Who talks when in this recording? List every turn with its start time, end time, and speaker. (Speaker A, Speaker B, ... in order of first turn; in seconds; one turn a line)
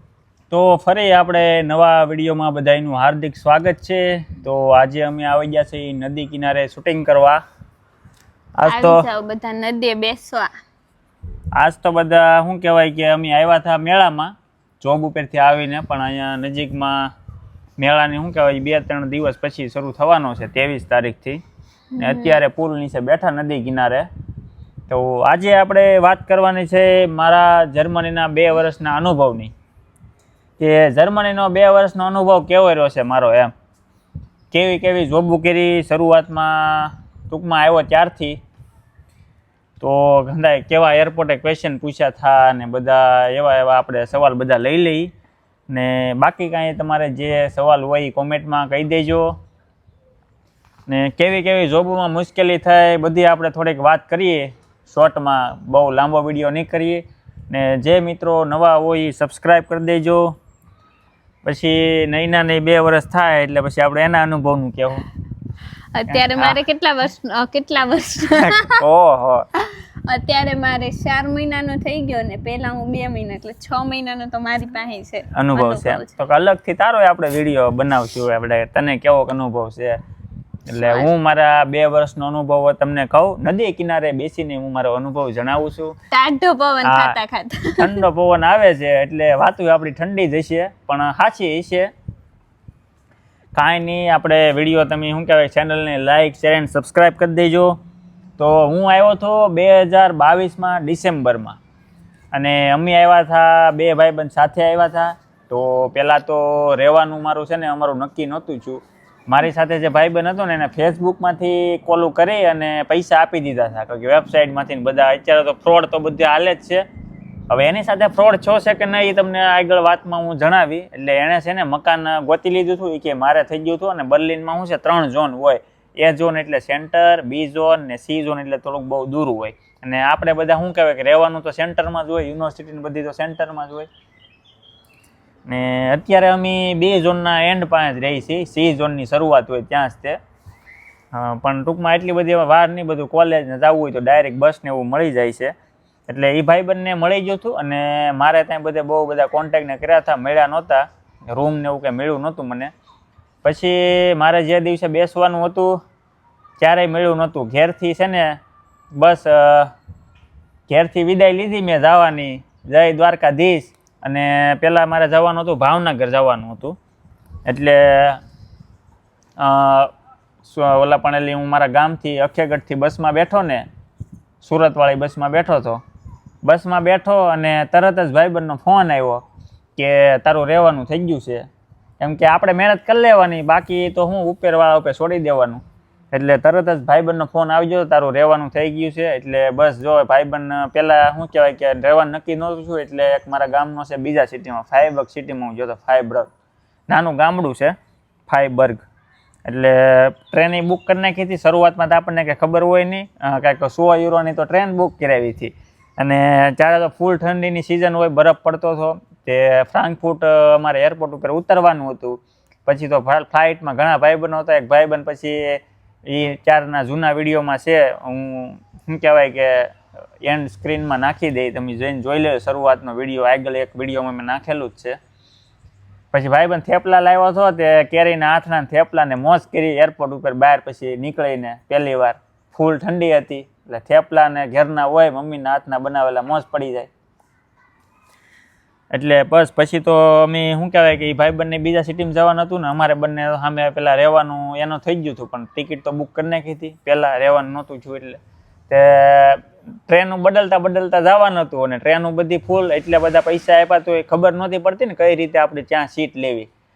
Speaker A: 0.5-7.4
Speaker A: 8.6-9.0
Speaker B: 8.7-10.5
Speaker A: 11.5-17.1
Speaker A: 17.8-21.4
Speaker B: 21.9-22.4
Speaker A: 22.0-24.1
Speaker A: 24.9-29.5
Speaker A: 30.6-33.5
Speaker A: 34.5-38.4
Speaker A: 39.8-45.1
Speaker A: 45.7-49.3
Speaker A: 50.9-60.3
Speaker A: 61.4-65.0
Speaker B: 65.9-68.8
Speaker A: 66.1-66.5
Speaker A: 68.4-69.5
Speaker B: 69.6-76.1
Speaker A: 75.3-80.0
Speaker A: 80.7-85.9
Speaker B: 80.7-81.1
Speaker B: 86.1-88.0
Speaker A: 86.8-87.2
Speaker A: 87.8-91.9
Speaker A: 93.5-97.7
Speaker A: 98.4-101.6
Speaker A: 102.3-116.8
Speaker A: 117.5-133.9
Speaker A: 135.5-140.2
Speaker A: 141.1-145.5
Speaker A: 146.1-152.7
Speaker A: 153.4-155.8
Speaker A: 156.6-158.4
Speaker A: 158.9-159.7
Speaker A: 160.7-166.8
Speaker A: 167.4-168.2
Speaker A: 169.4-169.9
Speaker A: 170.4-173.7
Speaker A: 174.4-175.8
Speaker A: 176.4-179.2
Speaker A: 179.8-181.5
Speaker A: 182.0-196.3
Speaker A: 196.9-197.7
Speaker A: 198.3-198.8
Speaker A: 199.4-225.0
Speaker A: 226.1-236.9
Speaker A: 238.9-248.2
Speaker A: 248.7-256.5